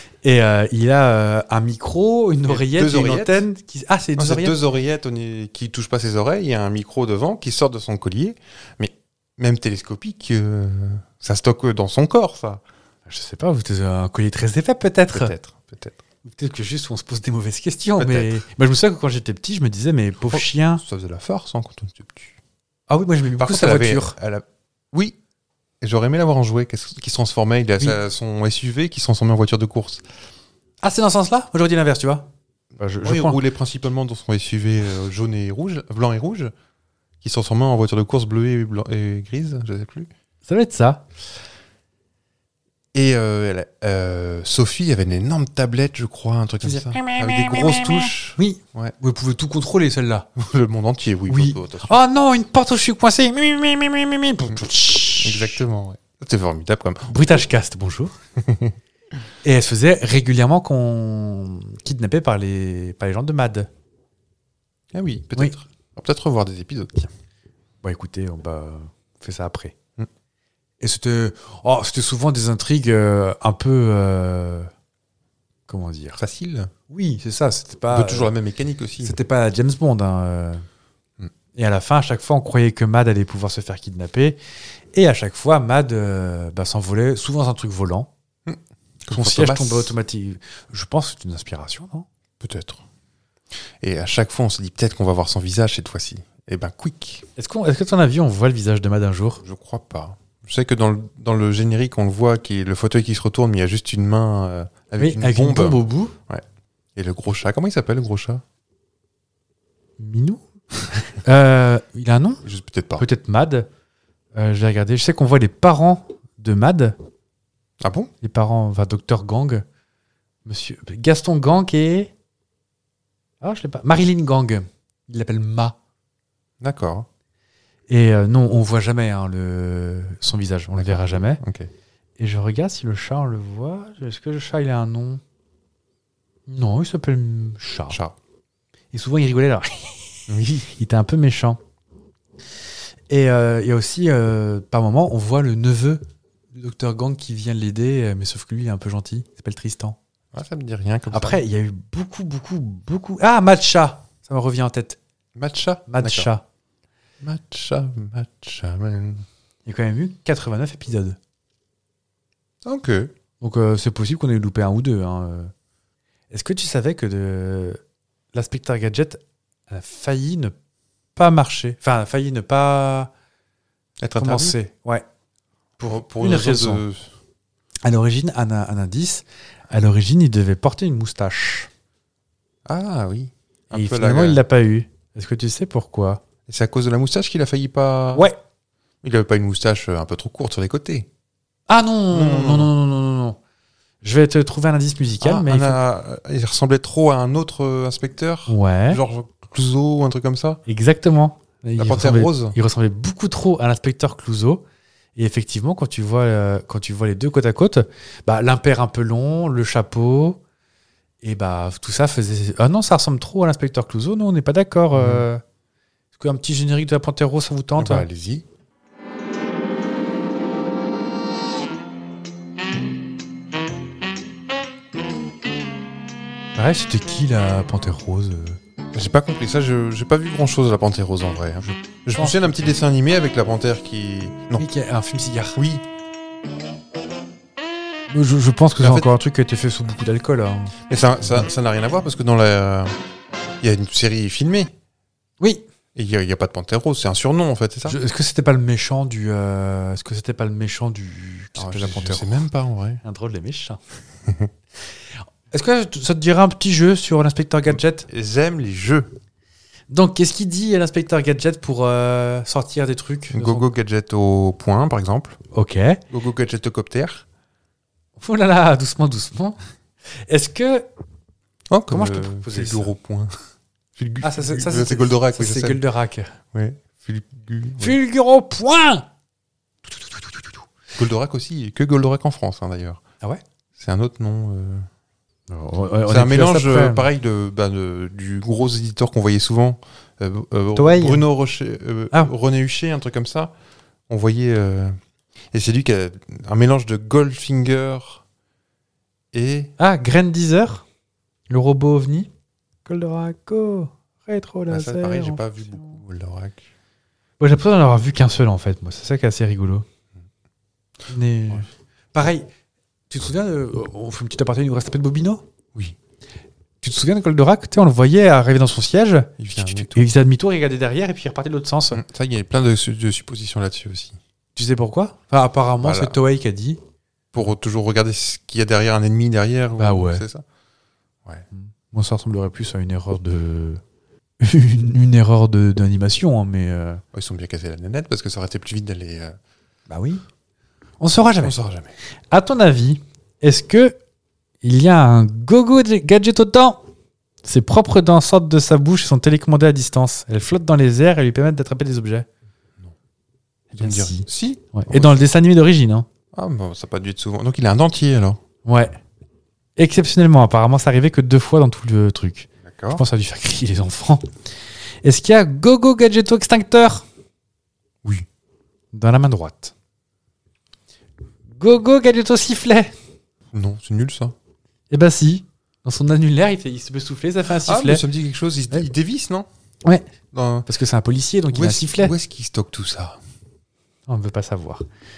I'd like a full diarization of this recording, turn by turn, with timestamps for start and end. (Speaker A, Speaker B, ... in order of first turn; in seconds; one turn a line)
Speaker A: 0.2-4.6
Speaker B: 2.5-3.4
Speaker B: 4.2-12.6
Speaker A: 13.1-15.3
Speaker B: 15.1-16.0
Speaker A: 16.2-20.8
Speaker B: 18.0-18.4
Speaker B: 20.3-22.4
Speaker A: 22.9-24.2
Speaker B: 23.4-25.2
Speaker B: 25.8-30.0
Speaker A: 30.8-33.4
Speaker B: 33.0-36.5
Speaker B: 37.2-40.1
Speaker A: 40.5-41.0
Speaker B: 42.9-49.0
Speaker A: 46.6-50.3
Speaker B: 50.4-52.0
Speaker A: 51.3-55.6
Speaker B: 55.2-57.5
Speaker A: 57.1-58.1
Speaker B: 58.4-58.8
Speaker A: 59.4-63.7
Speaker B: 64.9-67.1
Speaker A: 67.8-69.8
Speaker A: 70.8-74.7
Speaker A: 75.7-76.2
Speaker B: 76.2-76.7
Speaker A: 76.9-78.3
Speaker B: 77.9-79.2
Speaker A: 79.0-80.7
Speaker A: 81.5-84.4
Speaker A: 84.9-88.1
Speaker B: 88.5-90.0
Speaker A: 89.1-92.1
Speaker B: 92.4-92.8
Speaker B: 93.8-97.3
Speaker A: 97.4-99.4
Speaker B: 99.4-106.5
Speaker A: 105.0-106.1
Speaker B: 107.0-108.4
Speaker A: 110.0-110.4
Speaker A: 111.0-112.4
Speaker B: 112.4-113.0
Speaker A: 113.0-113.7
Speaker A: 114.3-117.0
Speaker B: 117.8-118.1
Speaker A: 118.2-119.7
Speaker A: 120.5-122.1
Speaker A: 123.4-125.8
Speaker B: 126.6-127.1
Speaker A: 127.9-131.4
Speaker B: 130.8-131.7
Speaker A: 132.2-135.2
Speaker A: 136.5-138.0
Speaker B: 137.9-138.2
Speaker A: 138.9-141.6
Speaker B: 140.3-140.7
Speaker A: 143.1-150.0
Speaker B: 150.3-151.4
Speaker A: 151.1-155.0
Speaker B: 155.3-156.3
Speaker A: 155.9-156.4
Speaker B: 157.2-159.2
Speaker A: 159.7-161.2
Speaker B: 162.7-163.1
Speaker A: 163.4-165.5
Speaker A: 166.3-167.8
Speaker A: 168.3-170.5
Speaker A: 171.2-173.1
Speaker B: 174.0-174.6
Speaker A: 174.2-175.1
Speaker A: 175.8-176.8
Speaker B: 175.8-177.1
Speaker A: 177.8-181.7
Speaker B: 182.7-184.4
Speaker A: 183.7-186.2
Speaker B: 186.5-188.3
Speaker A: 188.1-188.4
Speaker B: 189.0-191.1
Speaker A: 191.7-193.4
Speaker B: 192.1-192.7
Speaker A: 194.0-195.8
Speaker B: 195.2-200.6
Speaker A: 198.5-199.0
Speaker A: 200.7-204.6
Speaker B: 201.8-202.6
Speaker A: 205.2-210.4
Speaker A: 211.2-215.4
Speaker B: 214.9-215.3
Speaker A: 216.2-218.1
Speaker B: 217.8-218.4
Speaker A: 226.6-228.6
Speaker B: 228.9-234.7
Speaker A: 231.7-232.4
Speaker A: 234.6-235.6
Speaker B: 235.6-235.8
Speaker A: 238.1-240.8
Speaker B: 238.8-239.1
Speaker B: 240.9-242.9
Speaker B: 243.6-244.7
Speaker A: 245.4-245.7
Speaker B: 245.9-248.0
Speaker A: 247.8-252.5
Speaker B: 251.6-253.0
Speaker A: 253.0-253.8
Speaker A: 255.5-258.1
Speaker B: 257.7-259.1
Speaker A: 259.9-263.7
Speaker B: 263.3-265.4
Speaker A: 265.5-266.0
Speaker B: 266.1-267.2
Speaker A: 268.2-269.6
Speaker A: 270.3-270.9
Speaker B: 271.7-273.3
Speaker A: 271.9-272.9
Speaker B: 274.0-275.9
Speaker A: 274.2-276.4
Speaker B: 276.5-278.0
Speaker A: 277.8-279.1
Speaker B: 280.9-283.0
Speaker B: 283.8-284.9
Speaker A: 285.5-287.1
Speaker B: 286.1-293.5
Speaker A: 290.8-291.2
Speaker B: 294.1-295.0
Speaker B: 295.5-298.2
Speaker B: 299.3-299.7
Speaker A: 299.8-300.9
Speaker A: 301.5-302.3
Speaker A: 302.9-306.0
Speaker B: 304.7-306.6
Speaker A: 307.4-309.9
Speaker A: 311.1-312.5
Speaker A: 313.1-315.4
Speaker A: 316.8-322.0
Speaker B: 319.4-320.1
Speaker B: 321.9-324.2
Speaker A: 324.6-326.8
Speaker B: 325.8-326.2
Speaker B: 327.3-330.4
Speaker A: 329.8-330.2
Speaker A: 331.5-333.8
Speaker A: 334.4-337.0
Speaker B: 337.1-339.4
Speaker A: 339.9-340.2
Speaker A: 341.0-341.6
Speaker B: 341.4-341.9
Speaker A: 342.3-343.9
Speaker A: 344.6-346.8
Speaker A: 347.4-352.3
Speaker A: 353.7-356.1
Speaker B: 353.8-355.2
Speaker B: 356.3-358.4
Speaker A: 358.6-359.0
Speaker A: 359.8-364.3
Speaker B: 362.6-363.0
Speaker A: 365.0-367.1
Speaker A: 368.9-369.7
Speaker A: 371.5-372.9
Speaker B: 373.5-374.3
Speaker A: 374.9-378.0
Speaker B: 377.6-379.5
Speaker B: 380.3-380.7
Speaker A: 380.7-382.1
Speaker B: 381.5-383.2
Speaker A: 384.1-384.9